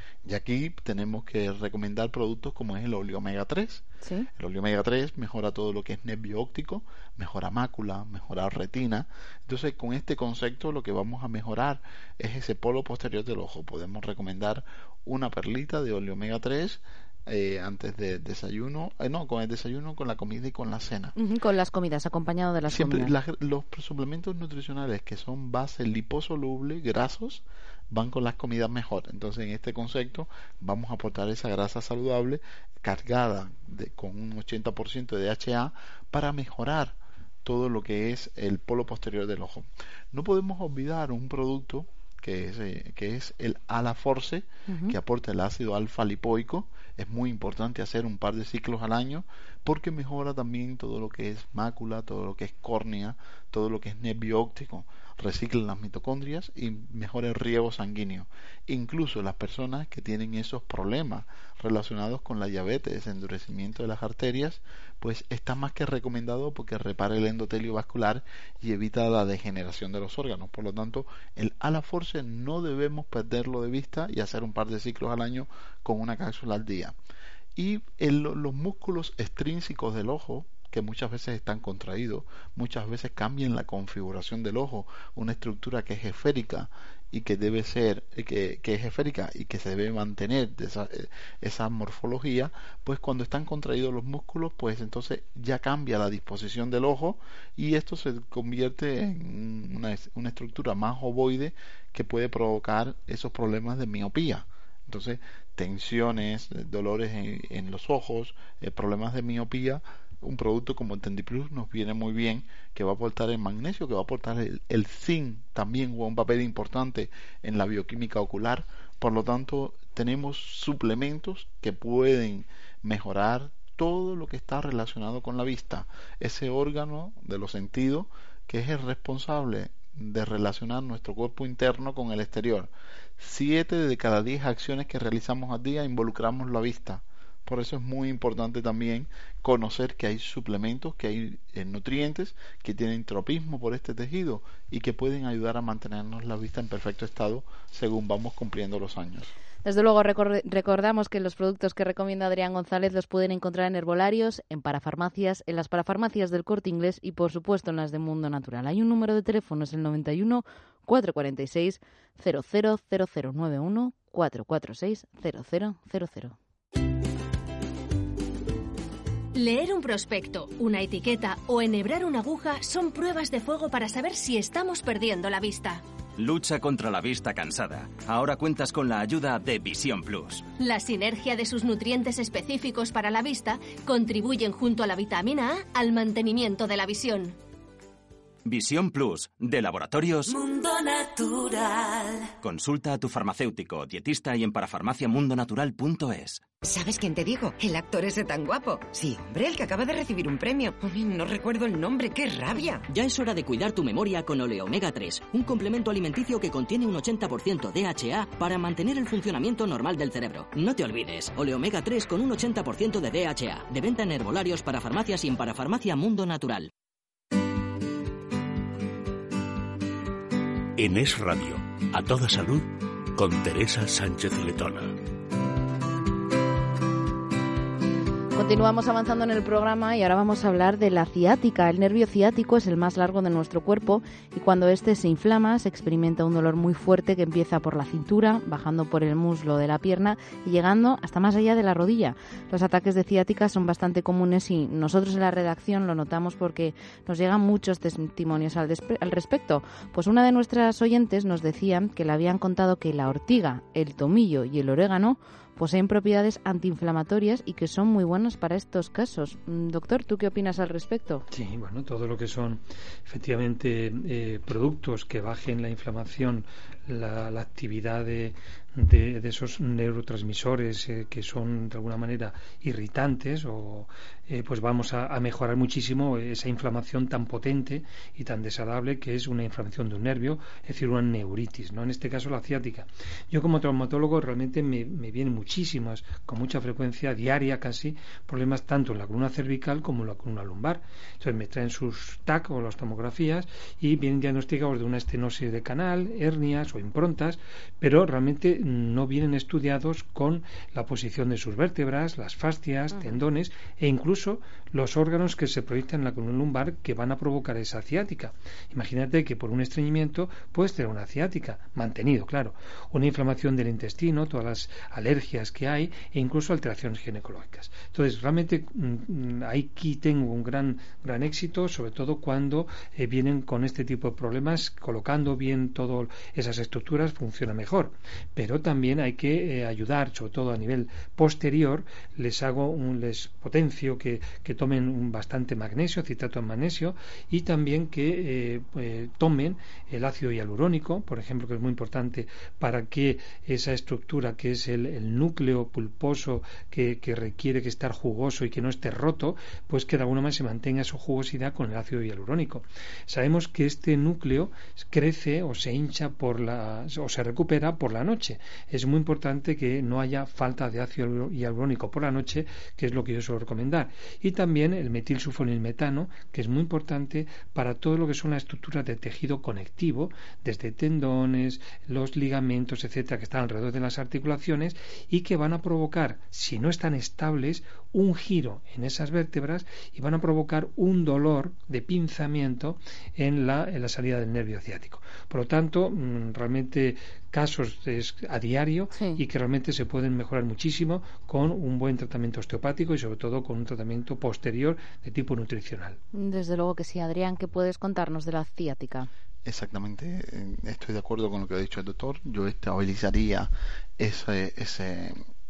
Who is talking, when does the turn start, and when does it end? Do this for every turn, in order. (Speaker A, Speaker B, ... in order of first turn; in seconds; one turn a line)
Speaker A: 0.2-21.1
Speaker B: 4.0-4.3
Speaker B: 21.1-23.1
Speaker A: 22.7-77.0
Speaker B: 44.7-45.0
Speaker A: 77.6-149.3
Speaker B: 149.7-166.4
Speaker C: 169.3-175.8
Speaker D: 176.2-180.5
Speaker C: 180.6-187.4
Speaker D: 188.4-190.3
Speaker E: 190.3-192.3
Speaker D: 192.4-196.4
Speaker F: 196.6-202.8
Speaker G: 202.9-216.7
Speaker H: 220.8-224.9
Speaker B: 228.3-261.2
Speaker I: 261.3-396.0
Speaker B: 302.9-303.2
Speaker B: 388.9-389.2
Speaker B: 396.1-399.1
Speaker A: 399.4-405.2